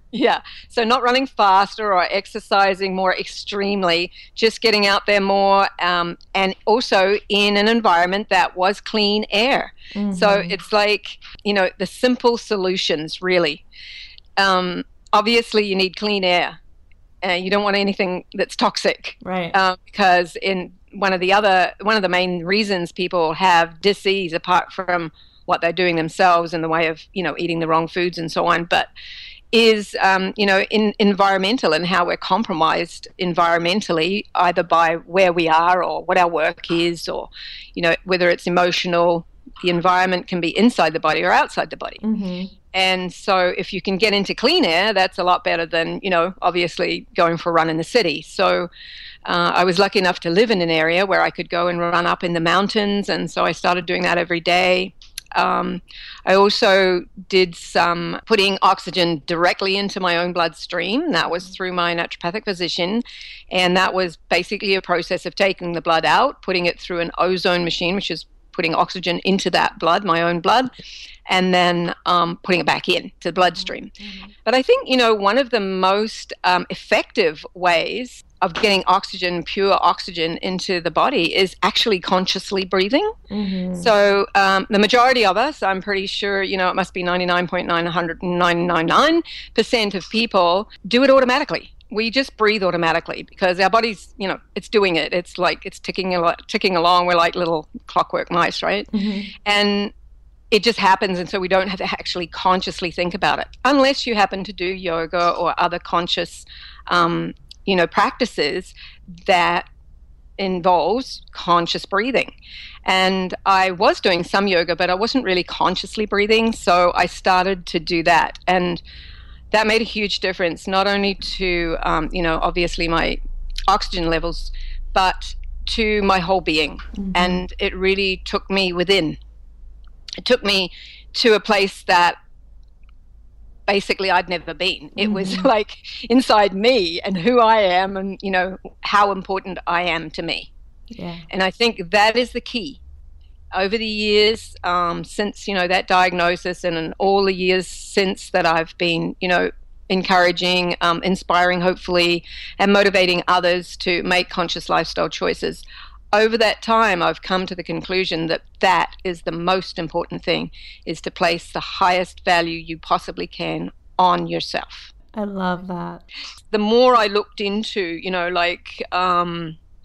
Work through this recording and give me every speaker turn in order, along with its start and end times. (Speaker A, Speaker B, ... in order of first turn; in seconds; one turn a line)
Speaker A: 0.1-13.6
Speaker B: 9.9-10.6
Speaker A: 14.4-16.6
Speaker A: 17.2-28.9
Speaker B: 19.2-19.5
Speaker A: 29.5-42.0
Speaker B: 42.0-42.5
Speaker A: 42.7-48.7
Speaker A: 49.2-70.7
Speaker A: 71.3-83.2
Speaker B: 73.5-74.3
Speaker B: 83.3-83.9
Speaker A: 83.8-98.9
Speaker B: 98.9-99.3
Speaker A: 99.4-99.9
Speaker A: 100.5-109.7
Speaker A: 110.4-112.3
Speaker A: 112.8-118.8
Speaker A: 119.5-129.2
Speaker B: 127.0-127.4
Speaker A: 130.2-132.2
Speaker A: 133.7-140.5
Speaker B: 135.0-135.5
Speaker B: 140.9-141.2
Speaker A: 141.3-142.8
Speaker A: 143.5-164.9
Speaker B: 165.1-166.0
Speaker A: 166.5-169.6